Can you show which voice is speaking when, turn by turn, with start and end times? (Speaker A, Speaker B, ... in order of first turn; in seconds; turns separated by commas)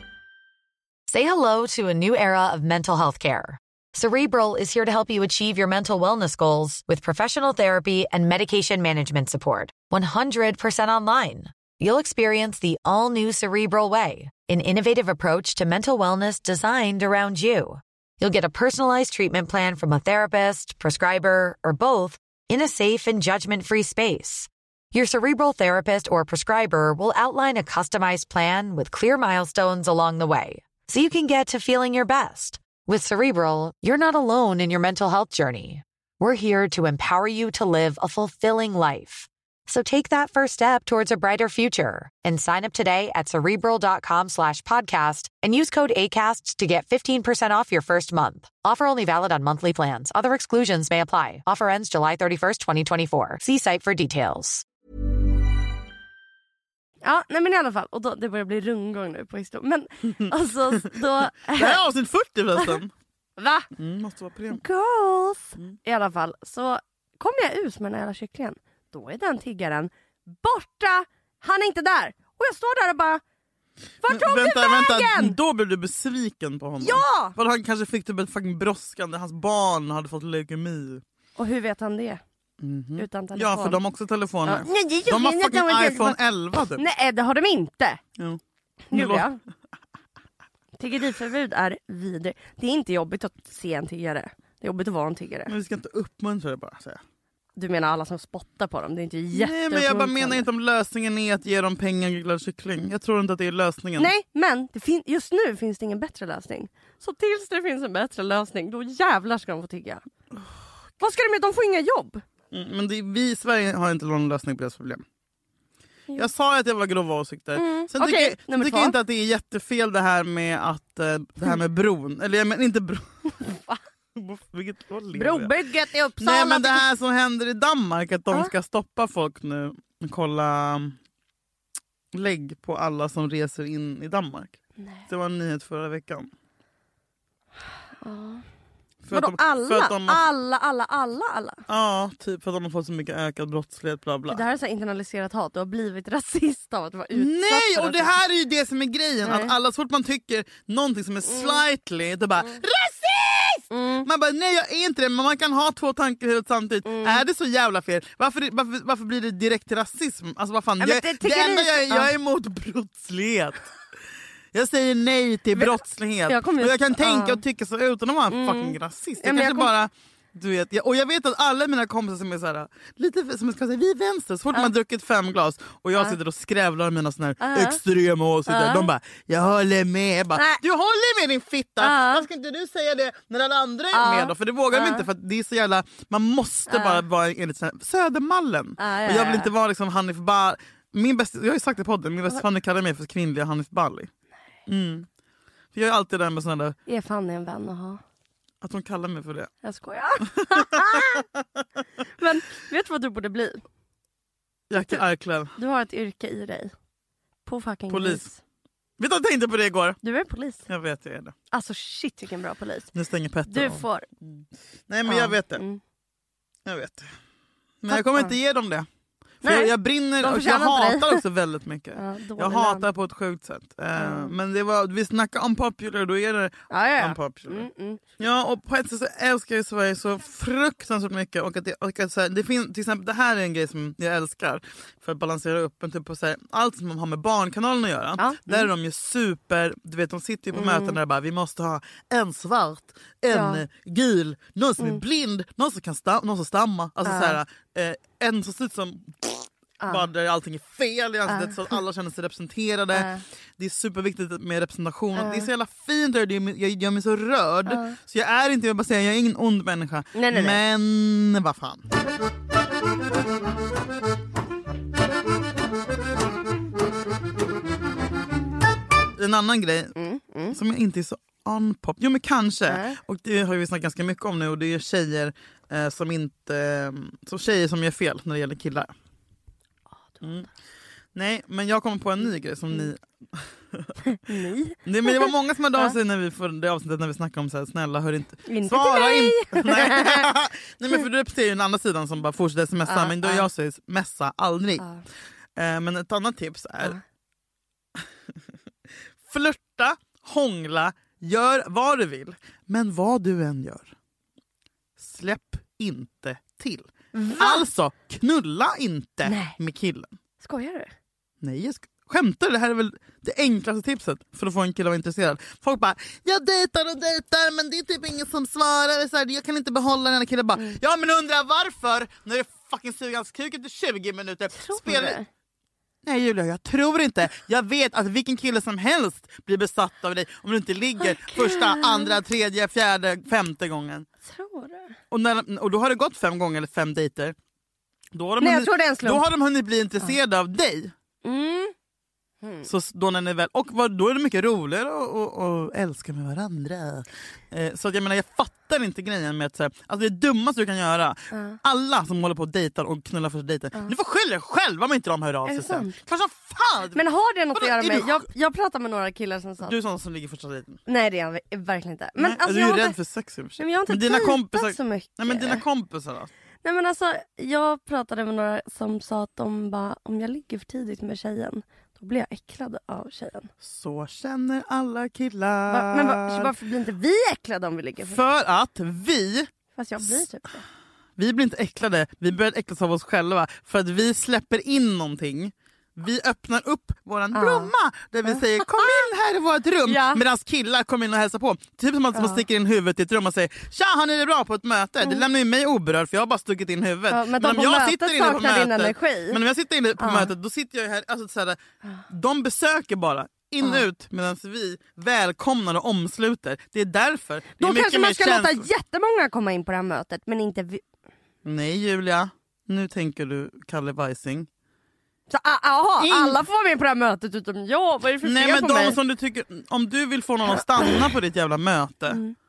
Speaker A: 1.1-54.6, Speaker B: 57.0-61.8, Speaker C: 60.2-62.9, Speaker B: 63.4-63.7, Speaker C: 63.7-64.6, Speaker B: 64.5-73.2, Speaker B: 74.0-75.4, Speaker C: 74.1-81.0, Speaker B: 76.8-77.3, Speaker B: 81.3-82.2, Speaker C: 82.6-86.8, Speaker B: 83.0-83.8, Speaker B: 84.4-86.2, Speaker B: 86.8-88.0, Speaker B: 88.9-89.4, Speaker C: 88.9-89.3, Speaker B: 90.8-95.5, Speaker C: 95.5-97.0, Speaker B: 97.5-100.5, Speaker C: 99.3-104.1, Speaker B: 104.0-110.0, Speaker B: 111.0-112.2, Speaker C: 112.5-115.0, Speaker C: 116.1-123.1, Speaker B: 117.5-119.0, Speaker B: 123.4-123.8, Speaker C: 124.1-125.5, Speaker B: 125.1-126.9, Speaker C: 126.2-130.9, Speaker C: 132.1-136.3, Speaker B: 134.8-135.0, Speaker B: 138.0-138.4, Speaker C: 139.0-140.2, Speaker B: 139.1-141.6, Speaker C: 141.7-144.4, Speaker B: 144.3-148.2, Speaker C: 147.1-163.7, Speaker B: 149.2-149.5, Speaker B: 151.2-151.6, Speaker B: 153.7-154.1, Speaker B: 156.8-157.2, Speaker B: 160.8-162.1, Speaker C: 164.5-194.1, Speaker B: 165.5-167.4, Speaker B: 168.3-169.7, Speaker B: 177.4-177.8, Speaker B: 178.5-178.9, Speaker B: 180.3-180.6, Speaker B: 181.8-182.2, Speaker B: 183.9-185.1, Speaker B: 186.7-187.0, Speaker B: 188.8-189.5, Speaker C: 194.7-195.1, Speaker C: 195.7-196.8, Speaker B: 196.9-198.0, Speaker C: 198.6-199.5, Speaker B: 199.6-201.2, Speaker C: 200.2-201.2, Speaker B: 202.2-203.6, Speaker C: 204.7-205.5, Speaker B: 204.7-205.0, Speaker B: 205.5-206.7, Speaker B: 207.4-208.4, Speaker C: 207.9-208.3, Speaker C: 209.0-210.0, Speaker B: 210.0-210.7, Speaker C: 210.7-211.3, Speaker B: 211.5-212.9, Speaker C: 212.9-215.6, Speaker B: 213.5-214.1, Speaker B: 215.0-215.8, Speaker C: 216.6-217.1, Speaker C: 217.8-218.9, Speaker B: 217.9-218.3, Speaker C: 219.4-261.9, Speaker B: 219.4-221.2, Speaker B: 221.9-222.9, Speaker B: 224.0-224.3, Speaker B: 226.7-228.0, Speaker B: 238.2-238.7, Speaker B: 240.5-241.0, Speaker B: 243.3-243.6, Speaker B: 247.0-247.4, Speaker B: 249.8-250.1, Speaker B: 251.3-251.7, Speaker B: 252.9-253.2, Speaker B: 255.2-255.5, Speaker B: 257.7-258.0, Speaker B: 260.1-260.6, Speaker C: 269.2-269.9, Speaker B: 269.9-270.6, Speaker C: 270.5-278.9, Speaker B: 272.7-273.0, Speaker B: 280.2-280.4, Speaker C: 280.2-280.5, Speaker C: 281.1-283.9, Speaker B: 284.0-285.9, Speaker C: 284.8-294.9, Speaker B: 288.4-290.3, Speaker B: 292.9-293.5, Speaker B: 294.8-295.0, Speaker C: 295.6-297.0, Speaker C: 299.2-303.9, Speaker C: 305.0-310.1, Speaker B: 307.1-307.7, Speaker B: 309.2-309.6, Speaker B: 310.4-310.9, Speaker C: 311.4-325.2, Speaker B: 324.5-325.3, Speaker C: 326.0-334.1, Speaker B: 331.0-332.1, Speaker B: 334.2-334.9, Speaker C: 335.1-337.4, Speaker C: 338.1-340.9, Speaker B: 338.4-339.3, Speaker B: 341.2-341.7, Speaker B: 342.4-342.7, Speaker C: 342.6-357.0, Speaker B: 351.3-351.6, Speaker B: 355.4-356.0, Speaker B: 356.9-359.7, Speaker C: 357.5-358.2, Speaker C: 359.6-360.8, Speaker B: 360.9-362.9, Speaker C: 362.2-366.3, Speaker B: 363.6-365.6, Speaker B: 366.6-373.5, Speaker C: 373.6-376.5, Speaker B: 375.7-378.2, Speaker C: 378.0-380.2, Speaker B: 379.7-380.6, Speaker C: 381.2-408.7, Speaker B: 387.3-387.7, Speaker B: 388.2-389.1, Speaker B: 389.9-390.2, Speaker B: 392.1-392.4, Speaker B: 397.1-399.4, Speaker B: 400.0-400.3, Speaker B: 407.6-410.8, Speaker C: 411.4-414.5, Speaker B: 415.3-419.0, Speaker C: 416.0-416.4, Speaker C: 418.2-422.2, Speaker B: 420.8-421.0